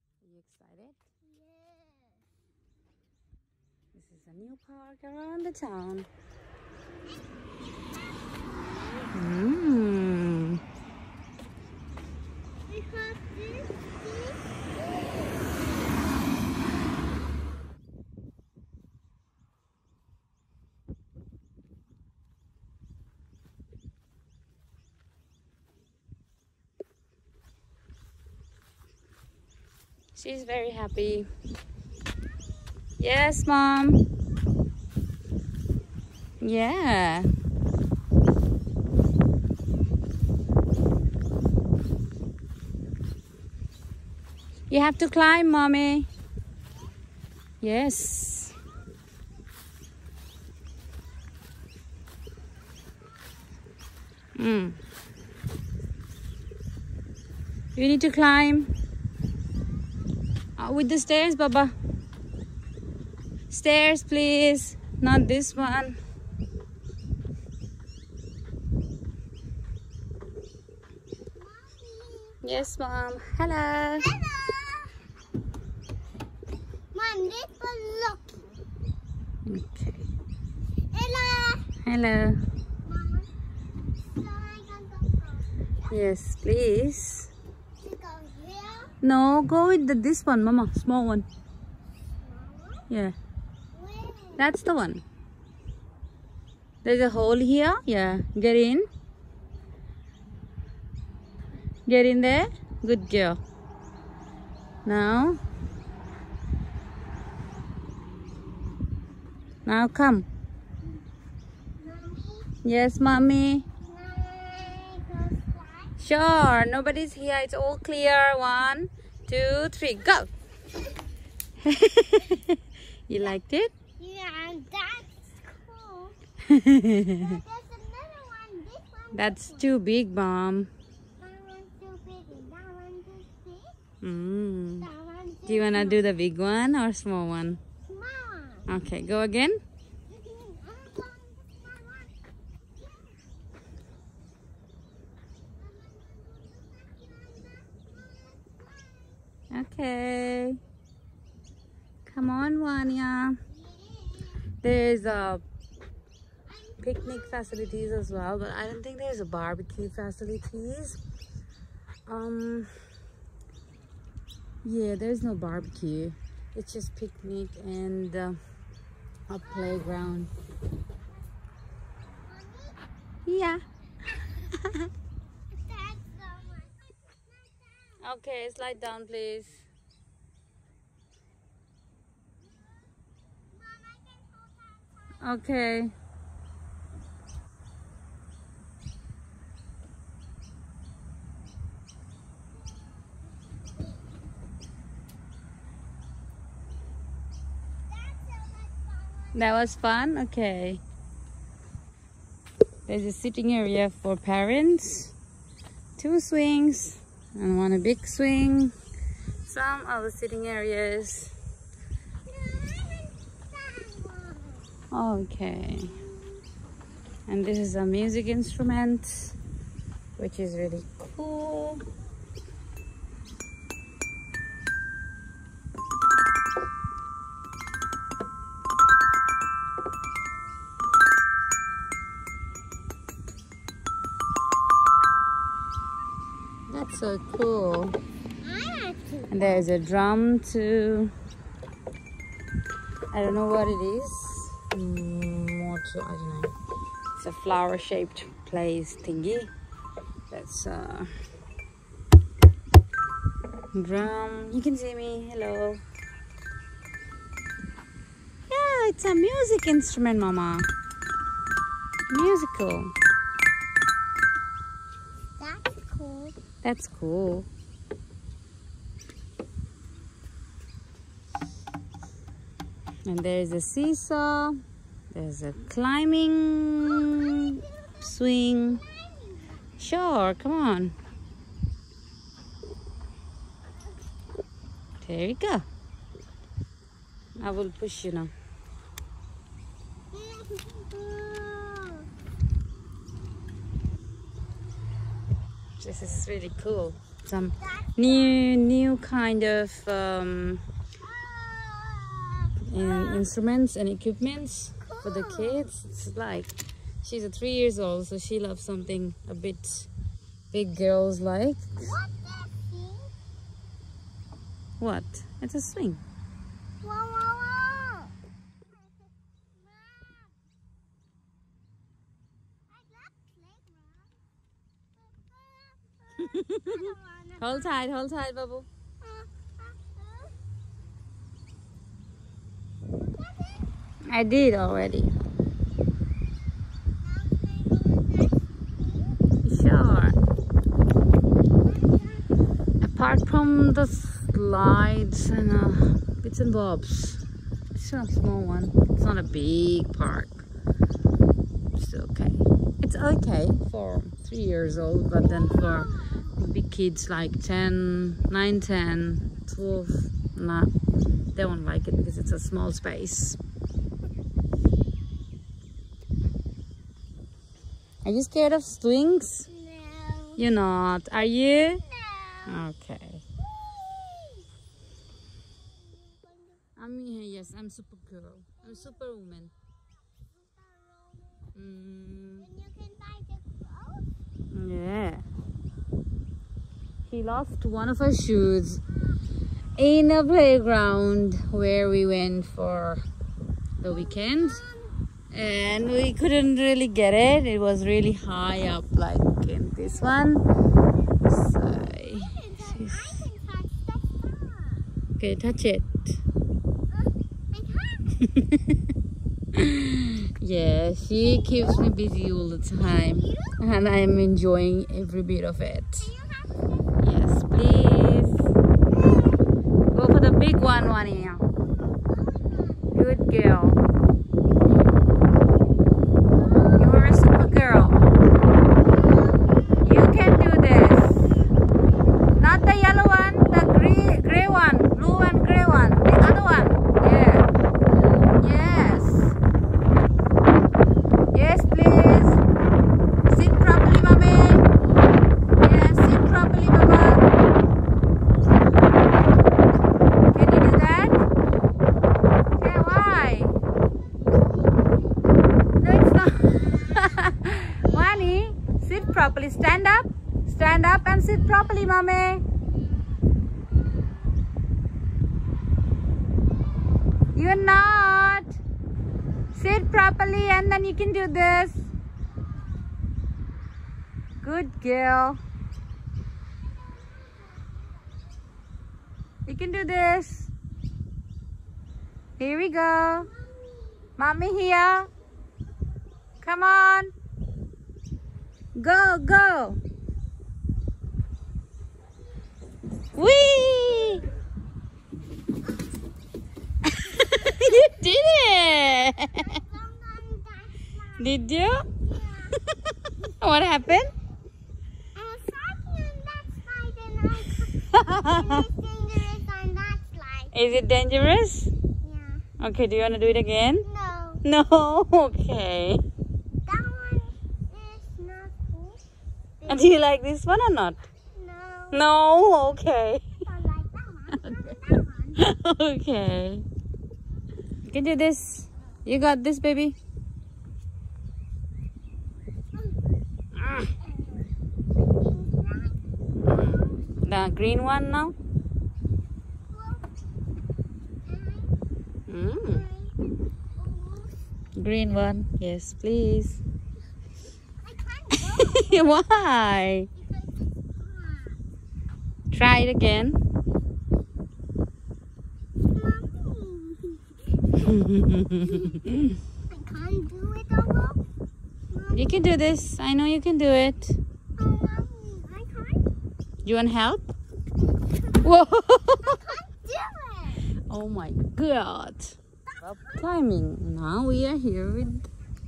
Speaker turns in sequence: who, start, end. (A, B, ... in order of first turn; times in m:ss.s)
0:00.2-0:01.0 A
0:01.3-0:02.2 B
0:03.9-0:06.1 A
0:08.6-0:09.1 B
0:09.1-0:10.6 A
0:12.7-0:14.4 B
0:30.2-0:31.3 A
0:33.0-0:34.0 A
0:36.4-0:37.3 A
0:44.7-0:46.1 A
0:47.6-0:48.6 A
0:54.4-0:54.8 A
0:57.8-0:58.7 A
1:00.6-1:01.7 A
1:03.5-1:06.0 A
1:11.4-1:12.4 B
1:12.4-1:14.2 A
1:14.0-1:14.9 B
1:16.9-1:18.6 B
1:19.5-1:20.1 A
1:20.9-1:21.7 B
1:21.8-1:22.4 A
1:22.8-1:23.3 B
1:24.1-1:25.7 B
1:25.9-1:27.3 A
1:27.8-1:29.0 B
1:29.0-1:31.3 A
1:32.2-1:32.9 B
1:32.9-1:33.2 A
1:33.7-1:34.4 B
1:34.4-1:35.0 A
1:36.8-1:38.9 A
1:41.9-1:43.4 A
1:44.9-1:45.4 A
1:49.7-1:50.3 A
1:51.8-1:52.5 B
1:52.6-1:53.7 A
1:53.7-1:55.9 B
1:56.0-2:00.3 A
2:01.6-2:03.8 A
2:04.0-2:06.2 B
2:06.4-2:07.4 A
2:07.1-2:09.7 B
2:09.1-2:10.7 A
2:11.2-2:13.8 B
2:14.0-2:14.9 A
2:14.8-2:16.1 B
2:15.5-2:17.6 A
2:17.9-2:18.7 B
2:18.7-2:19.6 A
2:20.1-2:22.1 B
2:25.6-2:29.2 B
2:29.5-2:30.6 A
2:32.1-2:33.4 A
2:33.6-2:34.4 B
2:34.6-2:35.4 A
2:36.5-2:37.1 B
2:36.8-2:41.0 A
2:42.1-2:42.8 A
2:44.6-2:48.4 A
2:49.3-2:50.3 A
2:52.3-2:52.8 B
2:53.3-2:53.6 A
2:54.4-2:54.9 A
2:55.5-2:58.0 B
2:58.0-2:59.7 A
3:03.5-3:05.2 B
3:05.2-3:05.9 A
3:17.9-3:19.5 B
3:19.3-3:20.8 A
3:22.9-3:25.2 A
3:26.0-3:28.7 A
3:29.4-3:31.3 A
3:32.3-3:34.6 B
3:34.9-3:36.0 A
3:37.3-3:39.4 A
3:40.2-3:41.8 A
3:56.7-3:58.0 A
3:58.4-3:59.5 B
3:59.3-4:01.1 A
4:03.1-4:06.5 A
4:07.2-4:09.5 A
4:10.3-4:11.1 A
4:13.7-4:15.8 A
4:18.5-4:20.7 A
4:22.1-4:22.9 A
4:25.4-4:26.4 B
4:26.6-4:27.5 A
4:33.1-4:34.6 A
4:35.1-4:38.8 A
4:37.0-4:37.7 B
4:38.9-4:39.6 B
4:39.8-4:41.0 A
4:45.0-4:45.7 A
4:47.4-4:48.3 A
4:50.1-4:52.1 B
4:55.8-5:00.6 A
4:57.8-4:58.4 B
5:01.0-5:03.2 B
5:02.7-5:09.9 A
5:05.0-5:05.7 B
5:10.5-5:11.9 A
5:11.8-5:13.1 B
5:14.8-5:16.0 A
5:16.8-5:18.2 B
5:19.6-5:20.3 B
5:22.7-5:24.1 B
5:25.0-5:27.8 B
5:26.2-5:28.7 A
5:29.0-5:30.3 B
5:33.0-5:33.7 B
5:34.1-5:35.2 A
5:37.0-5:39.2 B
5:39.4-5:40.2 A
5:41.6-5:42.3 B
5:42.8-5:47.2 A
5:47.7-5:50.5 A
5:51.8-6:00.7 A
5:55.4-5:56.2 B
6:01.4-6:03.4 A
6:08.0-6:09.5 A
6:09.5-6:10.4 B
6:10.4-6:11.8 A
6:11.9-6:12.6 B
6:12.4-6:13.2 A
6:13.5-6:14.5 B
6:15.8-6:16.6 B
6:16.8-6:19.5 A
6:20.2-6:21.5 B
6:21.6-6:22.5 A
6:22.4-6:24.1 B
6:24.5-6:25.3 A
6:27.1-6:28.8 A
6:29.8-6:33.0 A
6:33.8-6:34.6 A
6:33.9-6:35.0 B
6:35.3-6:40.4 A
6:41.2-6:43.2 A
6:42.1-6:44.9 B
6:45.2-6:46.0 A
6:46.9-6:48.3 B
6:48.2-6:48.8 A
6:49.5-6:56.1 A
6:52.9-6:53.6 B
6:56.0-6:56.9 B
6:57.0-6:58.5 A
6:59.0-6:59.4 B
6:59.9-7:01.4 A
7:01.9-7:02.9 B
7:02.9-7:03.8 A
7:06.8-7:08.1 A
7:08.9-7:09.8 B
7:09.8-7:11.4 A
7:12.3-7:17.5 A
7:18.4-7:19.4 A
7:21.3-7:22.4 A
7:23.3-7:24.7 A
7:25.6-7:27.2 A
7:30.3-7:31.2 A
7:32.6-7:33.6 A
7:35.8-7:42.4 A
7:47.3-7:48.6 A
7:49.6-7:51.9 A
7:54.4-7:55.4 A
7:56.6-7:58.4 B
7:59.5-8:00.5 A
8:02.4-8:03.3 A
8:04.2-8:05.1 A
8:06.4-8:07.1 A
8:08.8-8:09.8 A
8:13.2-8:14.3 A
8:16.8-8:19.6 A
8:19.0-8:21.5 B
8:21.2-8:21.9 A
8:22.1-8:22.6 B
8:22.5-8:24.1 A
8:25.2-8:30.5 B
8:27.7-8:28.5 A
8:30.5-8:31.7 A
8:32.0-8:32.5 B
8:32.6-8:33.9 A
8:33.8-8:34.4 B
8:34.4-8:36.0 A
8:36.7-8:39.0 B
8:39.6-8:39.9 B
8:39.7-8:41.1 A
8:41.4-8:42.0 B
8:41.9-8:43.4 A
8:43.4-8:45.4 B
8:44.3-8:44.7 A
8:45.4-8:46.7 A
8:47.9-8:50.0 A
8:53.5-8:53.9 A
8:54.9-8:56.0 B
8:56.4-8:58.4 A
8:56.5-8:57.0 B
8:59.7-9:00.0 B
9:01.3-9:01.8 B
9:02.3-9:02.9 A
9:02.6-9:03.2 B
9:03.8-9:04.3 B
9:04.8-9:06.6 A
9:07.8-9:09.2 B
9:08.4-9:10.1 A
9:10.2-9:11.6 B
9:12.5-9:13.4 A
9:15.8-9:17.8 B
9:17.8-9:19.4 A
9:18.6-9:19.0 B
9:19.7-9:21.2 B
9:21.9-9:22.4 B
9:22.1-9:24.2 A
9:24.6-9:26.1 B
9:26.6-9:27.3 A
9:28.3-9:29.6 A
9:29.2-9:30.7 B
9:30.8-9:35.3 A